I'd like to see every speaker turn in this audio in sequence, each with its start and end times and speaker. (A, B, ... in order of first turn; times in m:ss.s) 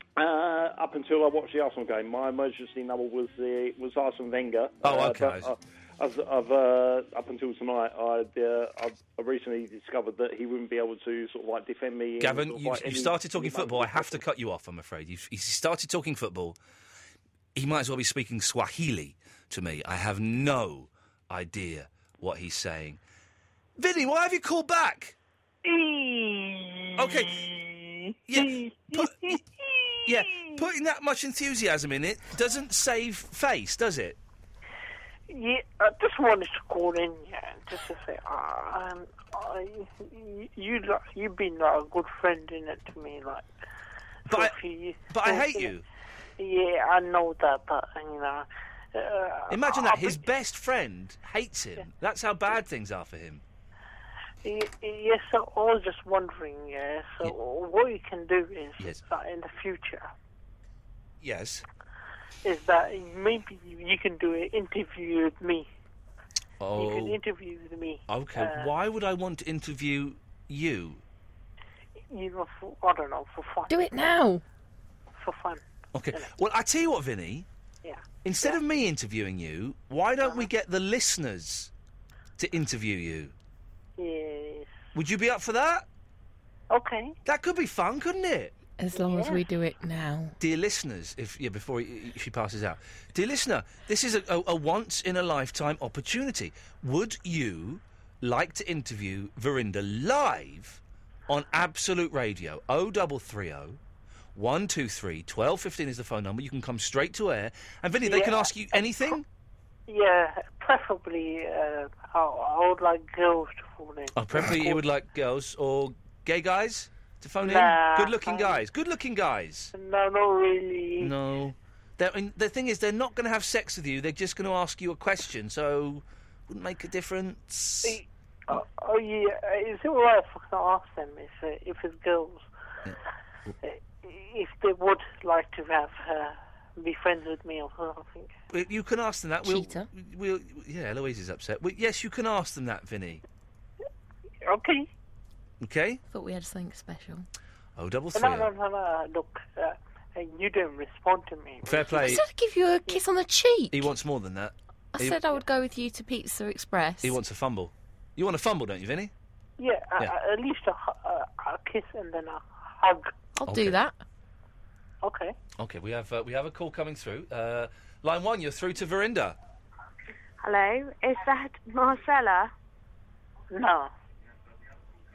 0:00.2-0:14.2 A
0:04.8-0:05.5 B
0:12.2-0:16.6 B
0:17.6-0:23.0 B
0:23.8-0:25.2 B
0:25.6-0:30.6 C
0:27.0-0:27.5 B
0:28.3-0:29.4 B
0:30.1-0:34.2 B
0:35.3-0:43.5 C
0:44.3-0:45.7 C
0:44.3-0:44.6 B
0:45.1-0:45.8 B
0:46.4-0:50.2 C
0:49.5-0:53.4 B
0:54.4-1:00.1 C
1:01.2-1:01.6 B
1:02.4-1:05.7 C
1:06.6-1:07.2 B
1:06.8-1:08.7 C
1:08.1-1:11.0 B
1:12.1-1:13.8 C
1:13.7-1:14.4 D
1:15.2-1:15.6 C
1:15.9-1:17.5 B
1:17.8-1:18.6 C
1:18.2-1:21.7 B
1:22.4-1:23.3 B
1:24.0-1:24.7 C
1:24.9-1:25.9 B
1:26.7-1:27.2 C
1:27.2-1:28.5 B
1:28.8-1:30.4 D
1:29.0-1:29.4 C
1:30.4-1:43.8 B
1:44.4-1:49.3 B
1:48.0-1:48.8 C
1:49.9-1:54.8 C
1:54.2-1:59.7 B
1:57.4-1:58.6 C
1:59.7-2:01.1 C
2:01.0-2:08.0 B
2:07.8-2:12.5 C
2:13.6-2:18.3 C
2:18.5-2:23.2 B
2:19.4-2:19.9 D
2:24.4-2:24.9 C
2:25.6-2:26.0 B
2:26.1-2:27.3 D
2:27.8-2:28.5 B
2:28.1-2:32.2 C
2:31.6-2:32.2 B
2:32.0-2:33.8 D
2:33.7-2:35.2 B
2:35.0-2:37.2 D
2:37.0-2:39.1 B
2:39.6-2:43.1 C
2:43.4-2:44.0 D
2:43.5-2:43.8 B
2:45.0-2:45.4 C
2:45.6-2:49.4 B
2:50.4-2:52.5 E
2:53.5-2:53.9 C